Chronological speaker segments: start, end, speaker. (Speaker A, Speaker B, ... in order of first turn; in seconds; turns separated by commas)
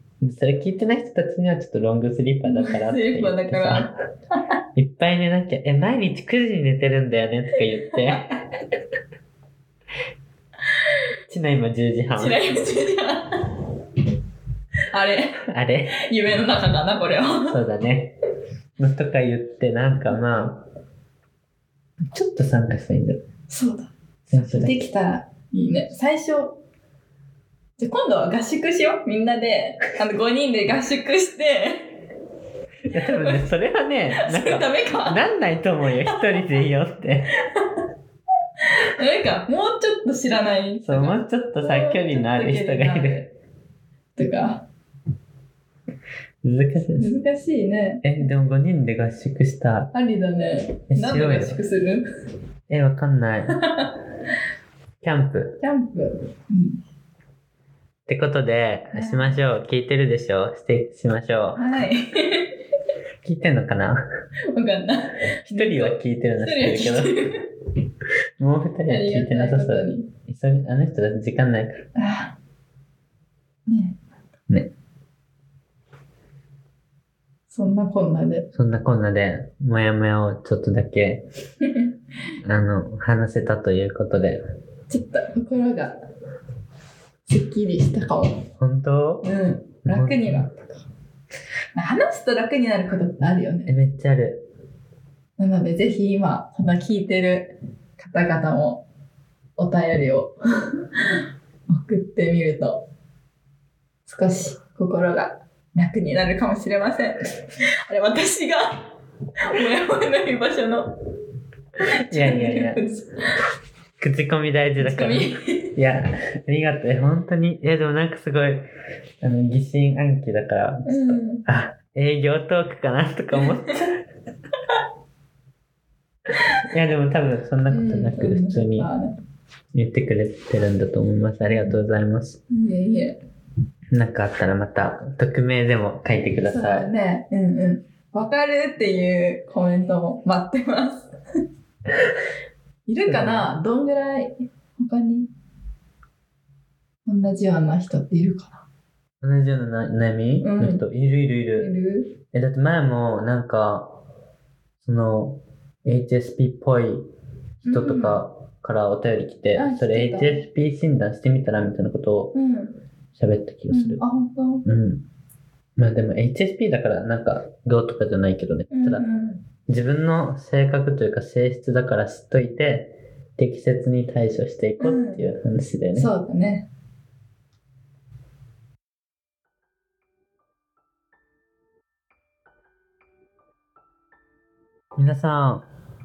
Speaker A: 0.2-3.9, Speaker B: 2.4-4.4, Speaker A: 4.7-8.3, Speaker A: 11.3-12.4, Speaker B: 12.2-13.4, Speaker B: 14.9-15.4, Speaker A: 15.5-15.9, Speaker B: 15.9-17.6, Speaker A: 17.5-18.1, Speaker A: 18.8-20.6, Speaker B: 20.1-20.4, Speaker A: 22.1-23.2, Speaker B: 23.5-26.6, Speaker A: 24.3-24.8, Speaker B: 27.8-31.9, Speaker A: 32.9-37.3, Speaker B: 32.9-33.5, Speaker B: 34.2-35.2, Speaker B: 38.8-43.3, Speaker A: 40.8-43.2, Speaker B: 44.1-44.6, Speaker A: 46.4-47.1, Speaker B: 47.0-48.0, Speaker A: 48.0-49.9, Speaker B: 49.9-52.0, Speaker A: 50.9-51.6, Speaker A: 52.7-53.5, Speaker B: 53.5-53.9, Speaker A: 55.0-55.6, Speaker B: 55.6-56.8, Speaker A: 58.1-61.6, Speaker B: 58.9-59.3, Speaker B: 61.5-62.5, Speaker A: 63.2-64.0, Speaker B: 64.5-67.4, Speaker A: 65.5-67.2, Speaker A: 68.4-71.8, Speaker B: 68.9-70.1, Speaker B: 72.0-72.3, Speaker B: 73.7-74.0, Speaker B: 77.5-78.5, Speaker A: 78.5-81.2, Speaker B: 81.6-81.9, Speaker A: 82.4-84.4, Speaker B: 84.9-86.0, Speaker B: 87.3-88.4, Speaker A: 88.6-89.2, Speaker B: 89.2-90.8, Speaker A: 89.8-90.5, Speaker B: 91.8-93.7, Speaker A: 93.7-94.4, Speaker B: 95.4-98.8, Speaker B: 99.6-100.3, Speaker B: 101.7-102.8, Speaker B: 104.1-107.3, Speaker B: 107.9-108.8, Speaker B: 109.5-110.9, Speaker B: 112.1-113.1, Speaker A: 112.1-112.8, Speaker A: 114.0-118.7, Speaker B: 114.8-115.7, Speaker A: 119.2-124.0, Speaker B: 120.8-121.5, Speaker B: 123.3-123.7, Speaker A: 126.6-128.9, Speaker B: 127.7-129.1, Speaker A: 129.7-132.4, Speaker B: 131.5-131.8, Speaker B: 132.5-133.2, Speaker A: 133.9-136.9, Speaker B: 136.4-141.1, Speaker B: 142.8-145.3, Speaker A: 143.1-143.5, Speaker B: 147.1-148.6, Speaker A: 149.2-151.7, Speaker B: 150.4-150.8, Speaker B: 151.6-152.1, Speaker A: 152.3-153.9, Speaker A: 154.8-157.1, Speaker A: 157.6-162.3, Speaker B: 157.6-158.2, Speaker B: 159.5-160.4, Speaker B: 162.3-162.8, Speaker A: 163.1-164.0, Speaker B: 163.7-164.7, Speaker A: 164.6-165.0, Speaker A: 165.8-169.0, Speaker B: 168.7-169.4, Speaker A: 169.7-176.1, Speaker B: 174.8-175.2, Speaker B: 175.9-176.7, Speaker A: 184.9-185.6